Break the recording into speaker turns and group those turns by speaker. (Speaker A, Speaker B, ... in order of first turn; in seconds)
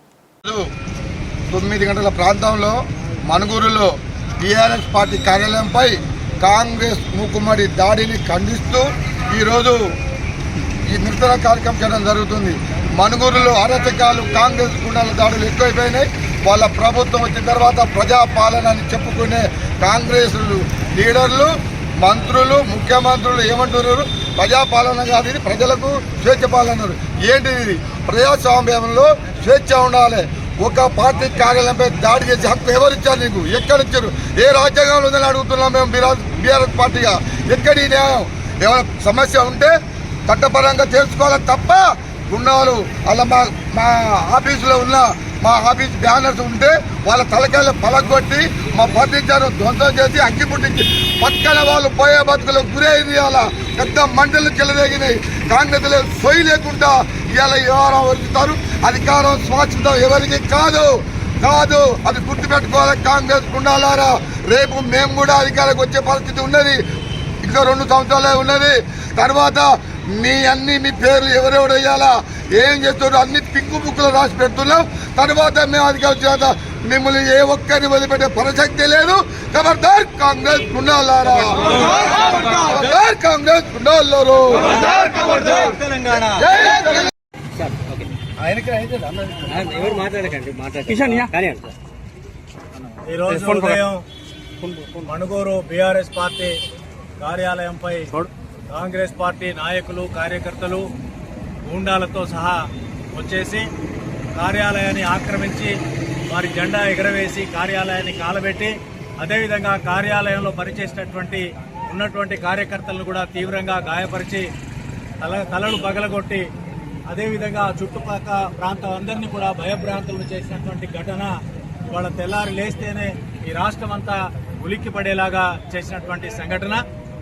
Speaker A: 1.5-3.9, 4.4-9.8, 10.8-39.7, 40.3-66.8, 67.4-84.8, 86.4-87.1
Speaker B: 85.0-86.5, 88.4-90.0, 93.1-94.0, 95.0-96.6, 97.2-98.1, 98.7-100.9, 101.7-103.7, 104.3-105.8, 106.3-114.5, 115.2-116.5, 117.1-121.3, 121.9-126.8
Speaker C: 87.5-88.1, 89.5-91.7, 93.3-93.8, 94.6-95.0